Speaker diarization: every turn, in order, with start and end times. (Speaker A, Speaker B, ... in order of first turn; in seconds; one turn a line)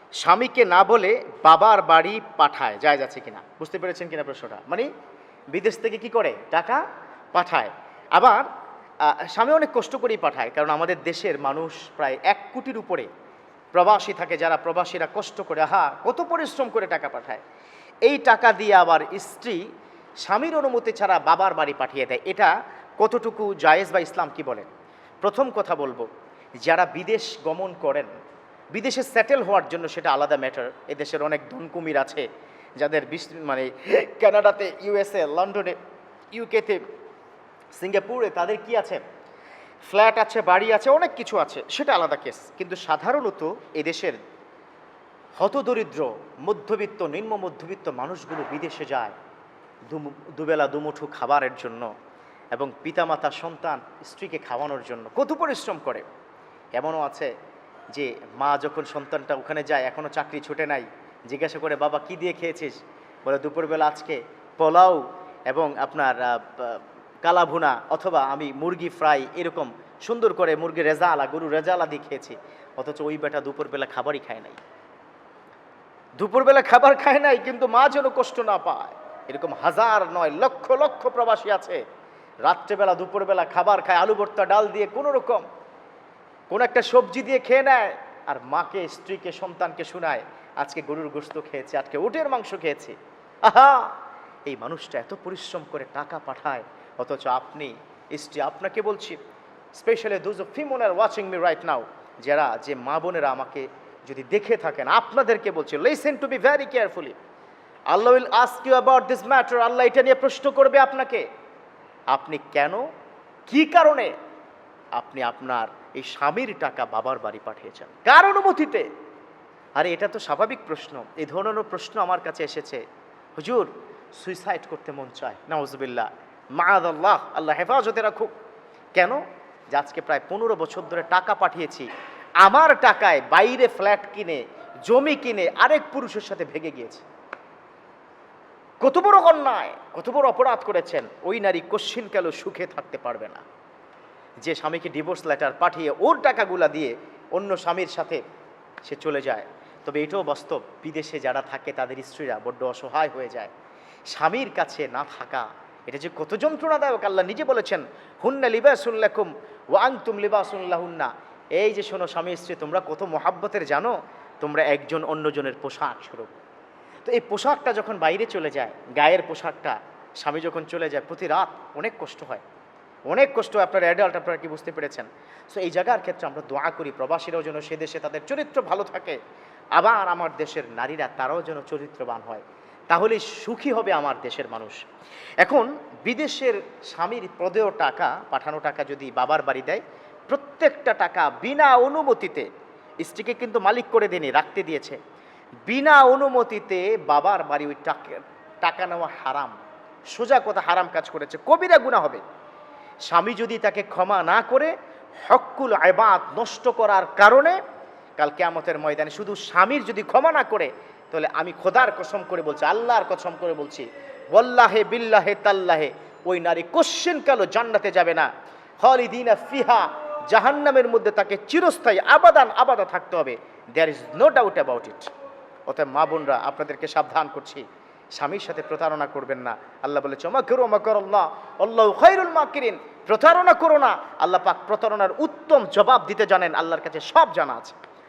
Speaker A: 0.2-4.9
Speaker A: 5.5-6.8
Speaker A: 7.3-8.5
Speaker A: 9.0-13.1
Speaker A: 13.7-17.4
Speaker A: 18.1-19.6
Speaker A: 20.2-24.7
Speaker A: 25.2-26.1
Speaker A: 26.6-28.1
Speaker A: 28.7-32.2
Speaker A: 32.8-35.8
Speaker A: 36.3-36.8
Speaker A: 37.8-39.0
Speaker A: 39.9-44.2
Speaker A: 45.4-49.1
Speaker A: 49.9-51.9
Speaker A: 52.5-56.1
Speaker A: 56.8-57.3
Speaker A: 57.9-74.6
Speaker A: 76.2-81.8
Speaker A: 82.5-85.4
Speaker A: 86.5-94.0
Speaker A: 94.5-99.2
Speaker A: 99.7-107.2
Speaker A: 107.9-111.2
Speaker A: 112.1-112.8
Speaker A: 113.5-114.1
Speaker A: 115.0-118.9
Speaker A: 119.8-122.8
Speaker A: 123.4-128.3
Speaker A: 128.9-129.2
Speaker A: 129.7-131.9
Speaker A: 132.4-137.1
Speaker A: 138.8-143.4
Speaker A: 144.4-148.2
Speaker A: 148.8-153.5
Speaker A: 154.1-166.3
Speaker A: 167.1-172.4
Speaker A: 173.1-179.2
Speaker A: 179.8-184.8
Speaker A: 185.4-192.5
Speaker A: 193.0-195.0
Speaker A: 195.7-199.6
Speaker A: 200.1-202.2
Speaker A: 203.1-204.7
Speaker A: 205.3-207.6
Speaker A: 208.2-218.3
Speaker A: 218.8-225.1
Speaker A: 225.7-237.7